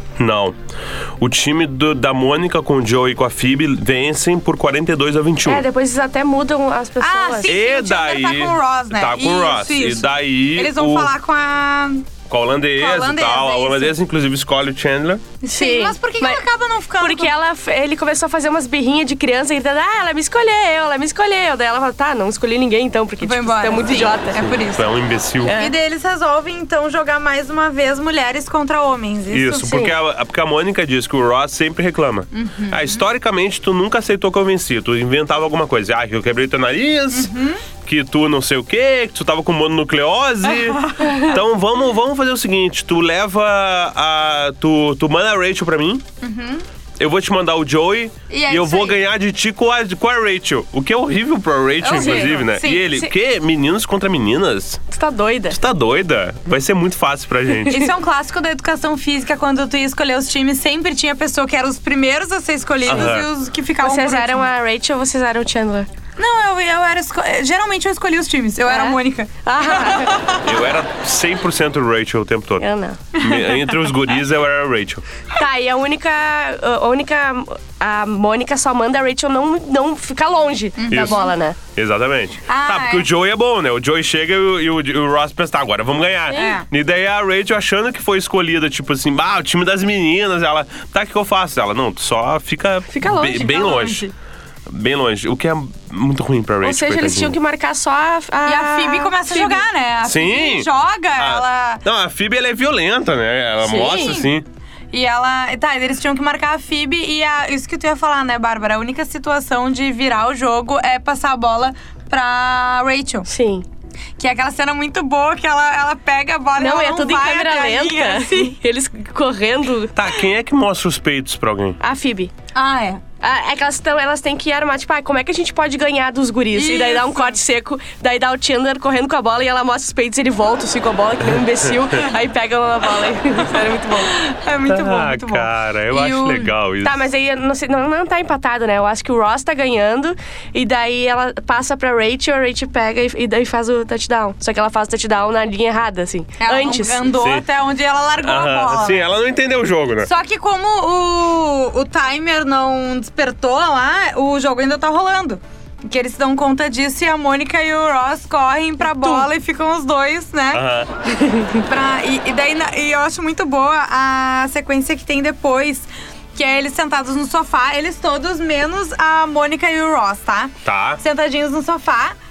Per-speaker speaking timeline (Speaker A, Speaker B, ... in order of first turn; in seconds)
Speaker A: 0.2-0.6, 1.2-5.7, 7.5-11.1, 12.3-15.2, 24.4-25.6, 29.3-37.3, 37.8-46.0, 47.0-54.8, 55.5-57.9, 62.9-63.3, 70.4-72.7, 73.2-75.0, 80.9-81.2, 81.7-94.1, 94.7-97.4, 100.0-104.5, 120.0-121.8, 134.7-137.0, 147.1-147.4, 148.2-150.1, 160.5-160.9, 170.7-171.0
Speaker B: 5.5-7.5, 15.5-16.4, 17.0-24.5, 25.4-25.7, 51.9-53.1, 54.9-55.6, 63.8-65.9, 68.7-70.3, 72.6-73.0, 75.4-81.6, 86.3-86.6, 93.0-93.9, 96.6-99.7, 103.6-104.2, 113.3-113.7, 116.6-120.0, 121.8-122.3, 123.2-134.1, 136.8-147.1, 158.9-159.3
Speaker C: 7.0-12.1, 12.8-13.9, 15.4-17.3, 23.2-24.9, 25.5-29.8, 32.3-33.0, 37.1-37.6, 40.8-41.3, 46.2-46.6, 48.3-49.0, 51.8-52.9, 57.7-64.5, 66.2-70.5, 73.2-73.7, 80.8-81.3, 82.5-83.1, 86.3-86.7, 93.0-94.1, 98.5-101.8, 103.7-104.3, 104.9-113.3, 114.2-118.6, 122.5-123.0, 126.5-127.4, 134.0-136.5, 146.4-149.1, 150.0-160.6, 161.5-172.2